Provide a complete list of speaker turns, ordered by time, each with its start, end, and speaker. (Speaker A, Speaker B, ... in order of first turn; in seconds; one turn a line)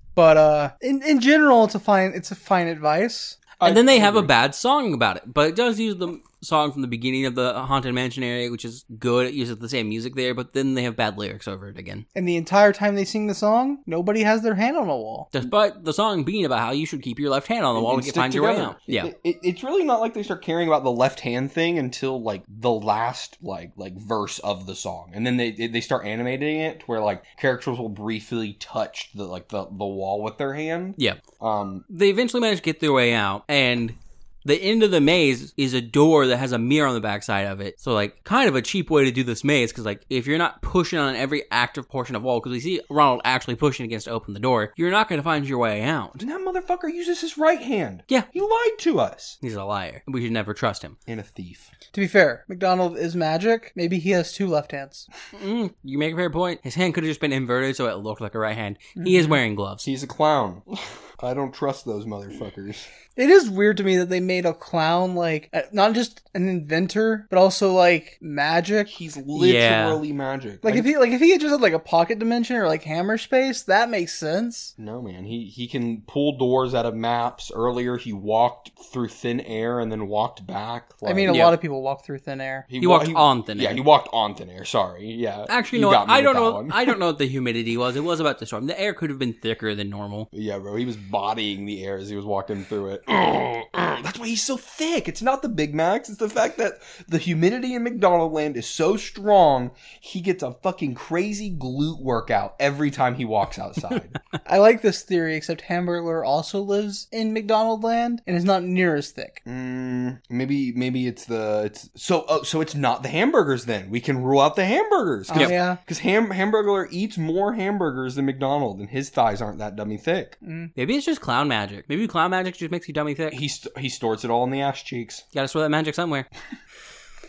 Speaker A: 0.1-3.6
Speaker B: 3.6-4.3
Speaker C: 3.6-12.0
Speaker A: 12.1-15.3
Speaker C: 15.3-19.1
Speaker B: 17.7-31.8
Speaker C: 31.9-46.2
Speaker B: 46.2-49.4
Speaker C: 49.4-51.0
Speaker B: 51.1-51.7
Speaker A: 51.9-55.1
Speaker C: 55.3-59.9
Speaker A: 59.0-59.4
Speaker B: 59.8-62.9
Speaker A: 63.1-68.9
Speaker B: 68.9-70.9
Speaker C: 69.3-70.0
Speaker A: 70.6-74.7
Speaker B: 74.8-81.4
Speaker A: 81.0-82.7
Speaker C: 81.3-81.5
Speaker B: 82.7-87.0
Speaker C: 82.8-83.8
Speaker C: 85.5-90.3
Speaker B: 90.3-104.2
Speaker A: 104.4-109.4
Speaker B: 109.4-120.3
Speaker A: 115.3-115.8
Speaker A: 120.4-120.7
Speaker C: 120.8-123.4
Speaker B: 123.3-125.2
Speaker C: 125.3-126.3